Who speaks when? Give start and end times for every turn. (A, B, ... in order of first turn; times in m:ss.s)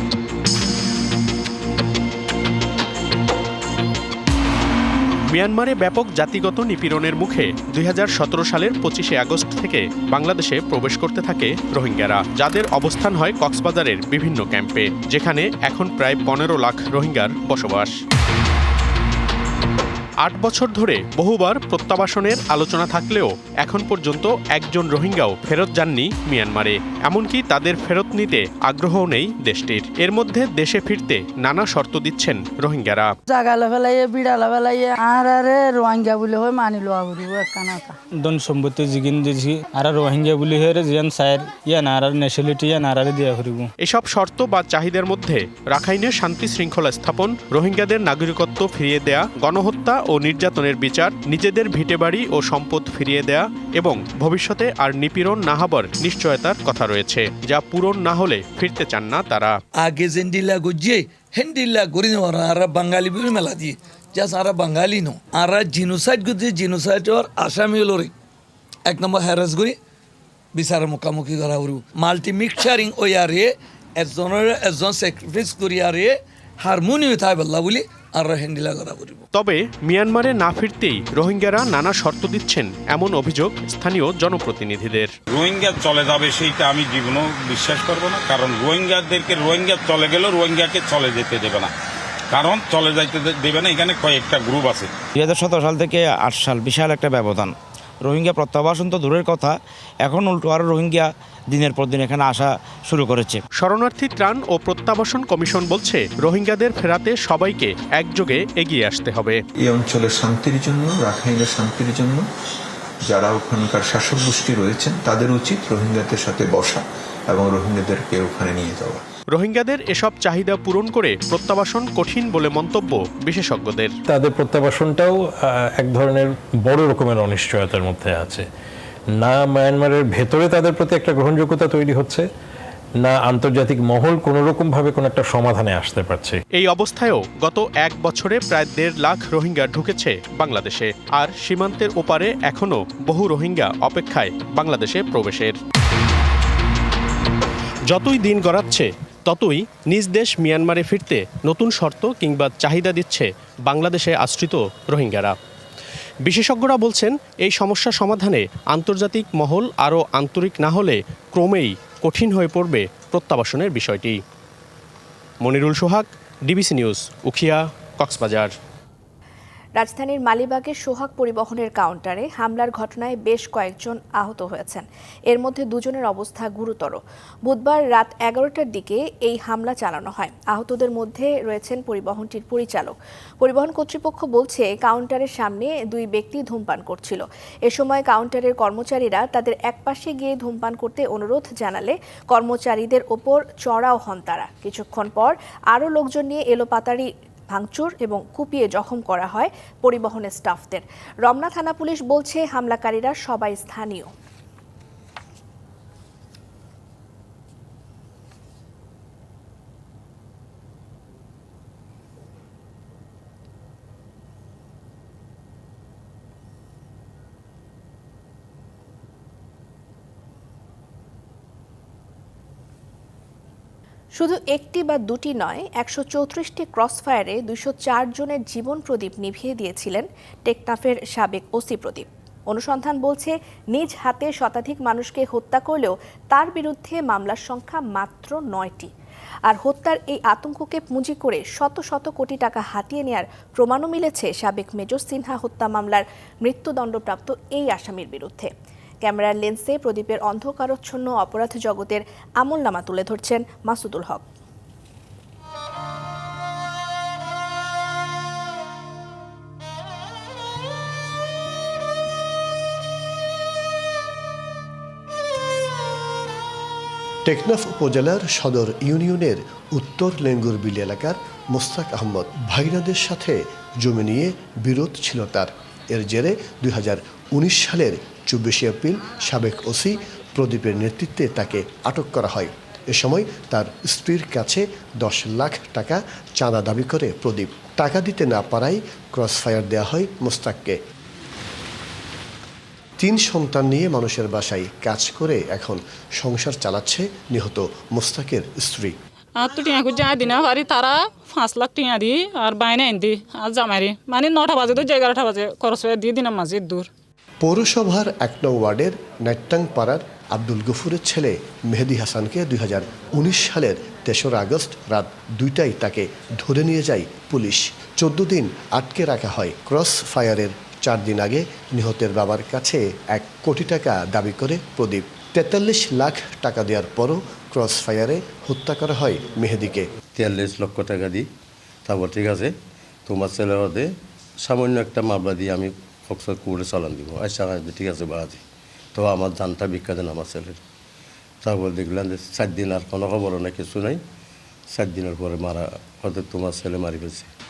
0:05.3-0:18.0 A
0:20.2-0:33.1 A
0:33.3-0:37.9 B
0:38.2-0:43.6 C
0:43.8-0:59.6 A
0:59.8-1:08.0 D
1:08.9-1:09.6 D
1:10.6-1:13.4 D
1:11.0-1:11.7 C
1:12.5-1:13.4 C
1:14.1-1:16.0 D
1:15.1-1:16.1 C
1:16.7-1:17.7 D
1:16.7-1:17.8 C
1:18.2-1:19.0 D
1:18.4-1:19.1 C
1:19.3-1:25.1 A
1:25.3-1:31.7 E
1:32.3-1:34.9 E
1:35.2-1:37.5 F
1:38.0-1:43.4 F
1:43.6-1:49.4 A
1:49.6-1:52.2 G
1:53.0-1:59.0 G
1:59.3-2:03.9 A
2:04.1-2:08.4 H
2:09.2-2:12.2 H
2:13.0-2:16.4 H
2:16.6-2:25.6 A
2:27.9-2:35.3 A
2:36.3-2:44.2 A
2:45.4-2:48.5 A
2:49.8-3:24.1 I
3:44.2-3:58.9 I
3:59.5-4:08.5 I
4:09.0-4:14.2 I
4:27.2-4:50.8 J
4:53.0-4:58.9 J
4:59.4-5:06.8 K
5:07.4-5:29.9 J
5:30.2-5:31.2 L
5:31.9-5:32.5 L
5:33.1-5:33.8 L
5:34.5-5:38.4 L
5:39.0-5:40.6 L
5:41.4-5:44.0 L
5:44.7-5:47.2 L